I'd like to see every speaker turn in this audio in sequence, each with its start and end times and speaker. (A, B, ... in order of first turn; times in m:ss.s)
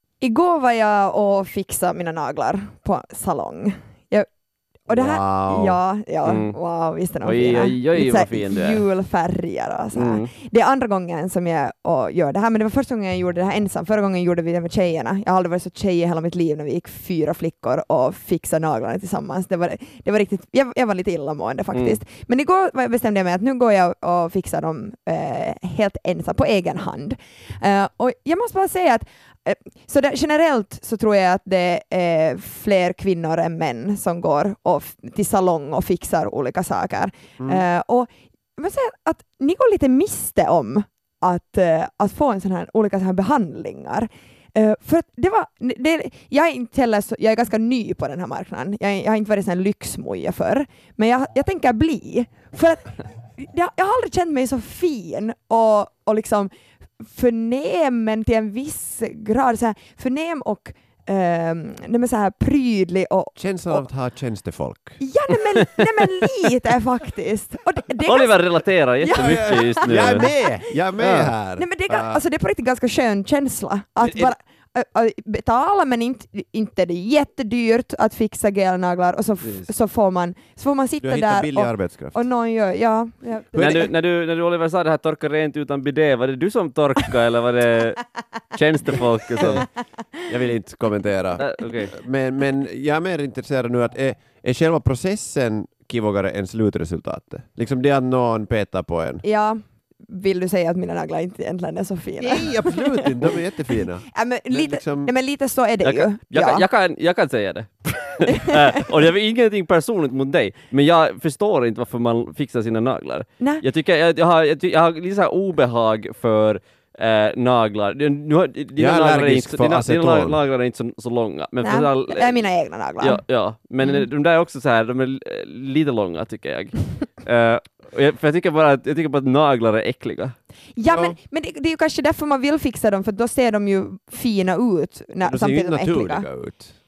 0:00.2-0:04.3 A
0:04.9-0:05.8 B
0:04.9-1:03.8 A
0:06.2-0:06.6 C
0:07.2-0:08.9 C
0:09.9-0:10.3 C
0:21.7-0:22.0 C
0:37.4-0:37.6 B
1:03.3-1:05.0 B
1:05.0-1:08.4 A
1:08.0-1:10.3 C
1:09.0-1:10.3 A
1:09.1-1:12.2 B
1:11.0-1:11.3 C
1:11.6-1:23.9 A
1:14.0-1:14.3 B
1:19.4-1:19.7 C
1:21.0-1:22.2 B
1:23.5-1:23.9 B
1:23.6-1:29.7 C
1:29.4-1:29.7 B
1:30.3-1:39.2 B
1:31.4-1:31.9 C
1:39.2-1:43.1 A
1:42.2-1:45.1 B
1:44.1-1:46.6 A
1:45.8-2:02.4 C
1:53.4-1:53.6 A
1:58.8-2:00.4 B
2:01.6-2:03.2 A
2:03.0-2:10.3 C
2:03.8-2:04.0 A
2:10.7-2:16.3 A
2:10.8-2:11.2 B
2:15.2-2:16.7 B